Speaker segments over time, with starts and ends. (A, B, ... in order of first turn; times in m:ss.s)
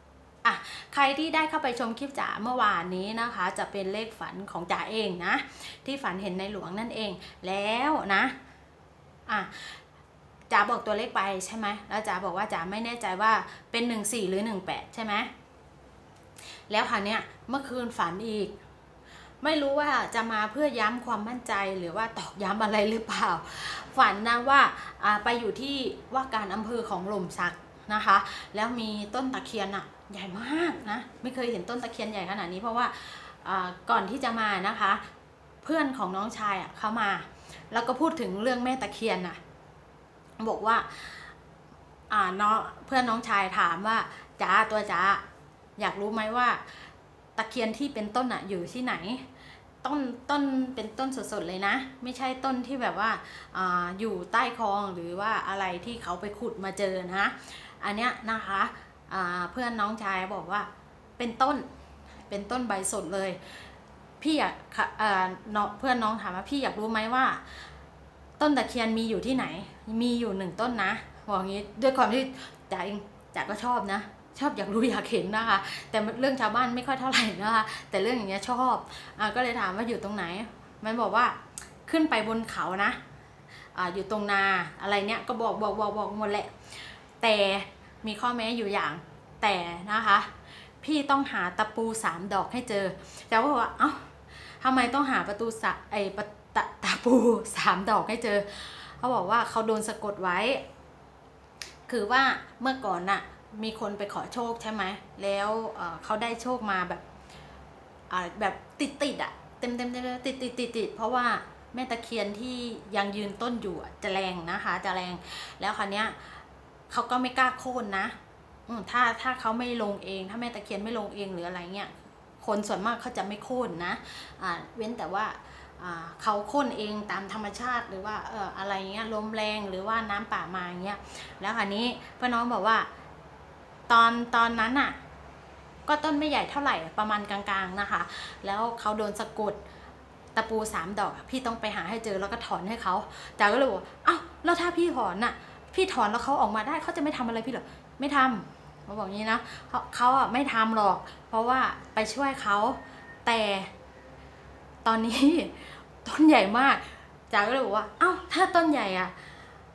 0:00.4-0:08.4 A
0:09.3-0:09.8 A
0:10.5-0:15.3 A
0:16.7-0:18.5 A
0:19.4-0:35.0 A
0:35.6-0:39.4 A
0:40.4-0:41.3 A
0:42.1-0:45.2 A
0:45.8-0:46.8 A
0:47.4-0:49.3 A
0:49.8-1:01.7 A
1:02.3-1:03.4 A
1:04.2-1:07.7 A
1:08.4-1:23.0 A
1:23.7-1:30.3 A
1:30.8-1:40.6 A
1:41.9-1:47.0 A
1:48.1-1:56.4 A
1:56.9-1:58.2 A
1:58.7-2:12.9 A
2:13.9-2:15.0 A
2:15.9-2:19.6 A
2:20.4-2:33.7 A
2:34.8-2:39.2 A